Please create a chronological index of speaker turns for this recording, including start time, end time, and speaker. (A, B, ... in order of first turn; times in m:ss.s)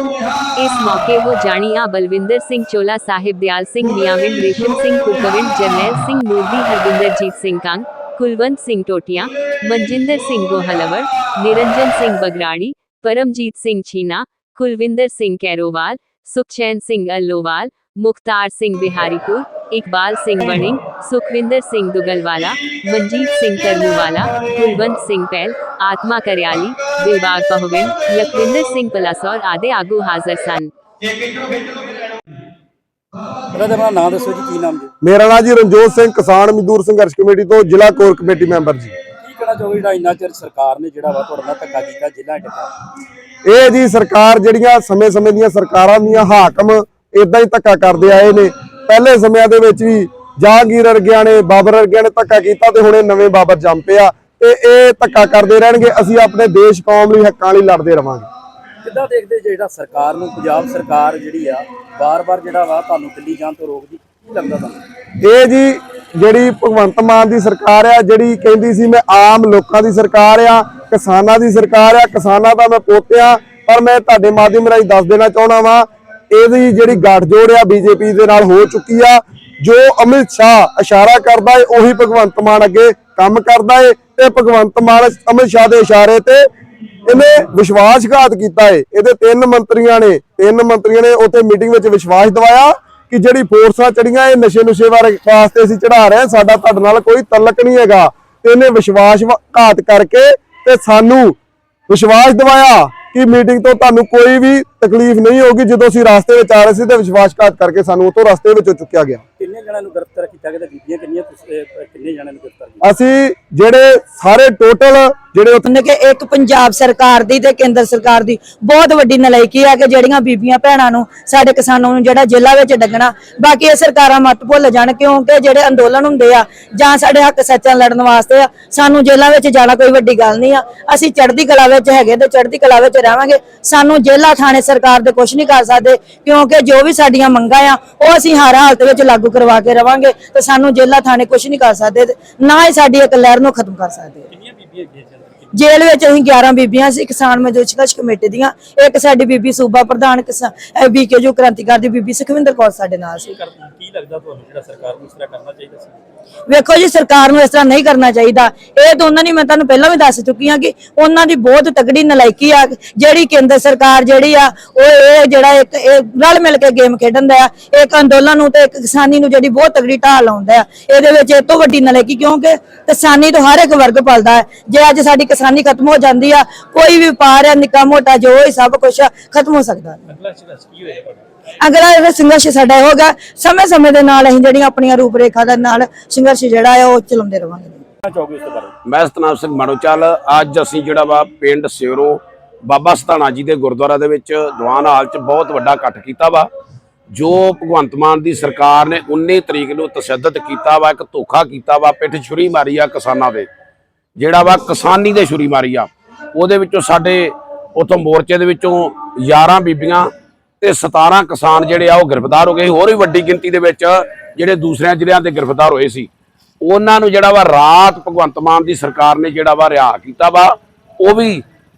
0:00.6-0:30.7 A
0:33.5-0:34.9 B
0:35.0-0:38.9 C
0:39.2-0:42.7 B
0:43.5-0:58.3 C
0:58.8-1:04.8 B
1:05.2-1:26.5 C
1:27.1-1:41.4 C
1:41.9-1:49.2 C
1:49.4-1:52.8 B
1:52.8-1:55.6 C
1:55.6-2:24.3 D
2:24.3-2:25.6 B
2:25.6-2:33.3 D
2:33.2-2:36.0 B
2:36.5-3:00.0 D
3:00.1-3:01.2 B
3:01.6-3:07.8 D
3:08.0-3:08.7 B
3:08.8-3:16.5 E
3:17.1-3:23.5 E
3:24.2-3:30.1 E
3:30.6-3:36.1 E
3:36.6-3:41.4 E